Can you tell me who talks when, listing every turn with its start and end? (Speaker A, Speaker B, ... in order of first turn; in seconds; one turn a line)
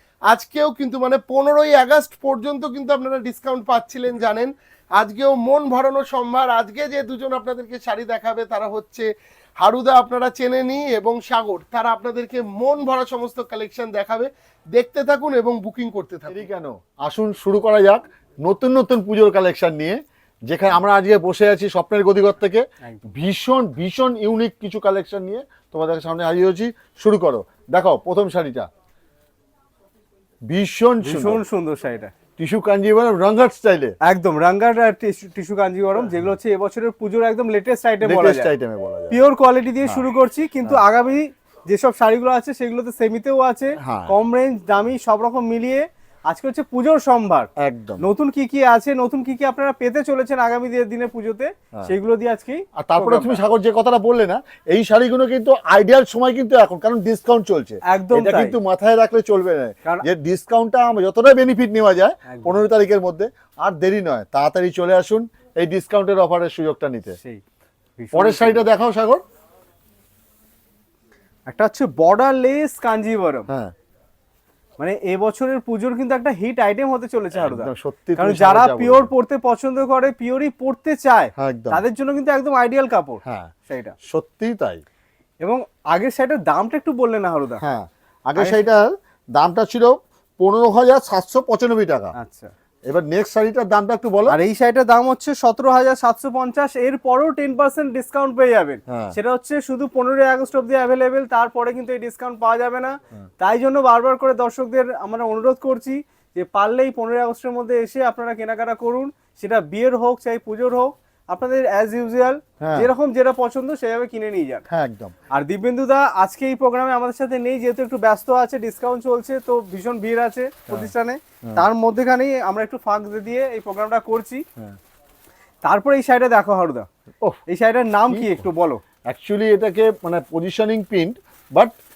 Speaker A: 0.3-9.1
Speaker A: 9.6-16.4
Speaker B: 16.3-28.7
Speaker B: 30.5-31.4
Speaker C: 31.0-32.1
Speaker B: 32.4-33.9
Speaker C: 34.0-38.5
Speaker B: 38.0-39.2
Speaker C: 39.1-47.5
Speaker B: 43.8-44.1
Speaker B: 47.6-48.1
Speaker C: 48.0-53.4
Speaker B: 52.8-67.2
Speaker C: 57.9-58.6
Speaker C: 62.2-62.6
Speaker C: 68.0-68.7
Speaker B: 68.1-69.2
Speaker C: 71.5-73.5
Speaker B: 73.5-73.7
Speaker C: 74.8-84.0
Speaker B: 77.3-79.1
Speaker B: 81.4-81.8
Speaker B: 83.2-83.5
Speaker B: 84.0-84.8
Speaker C: 85.4-87.6
Speaker B: 87.6-92.1
Speaker C: 88.3-88.6
Speaker C: 92.1-92.5
Speaker B: 92.9-94.4
Speaker C: 94.2-114.6
Speaker B: 98.9-99.1
Speaker B: 112.6-112.9
Speaker B: 114.7-115.1
Speaker C: 115.3-124.4
Speaker C: 125.6-126.8
Speaker C: 127.5-128.8
Speaker B: 128.1-128.5
Speaker B: 129.1-131.7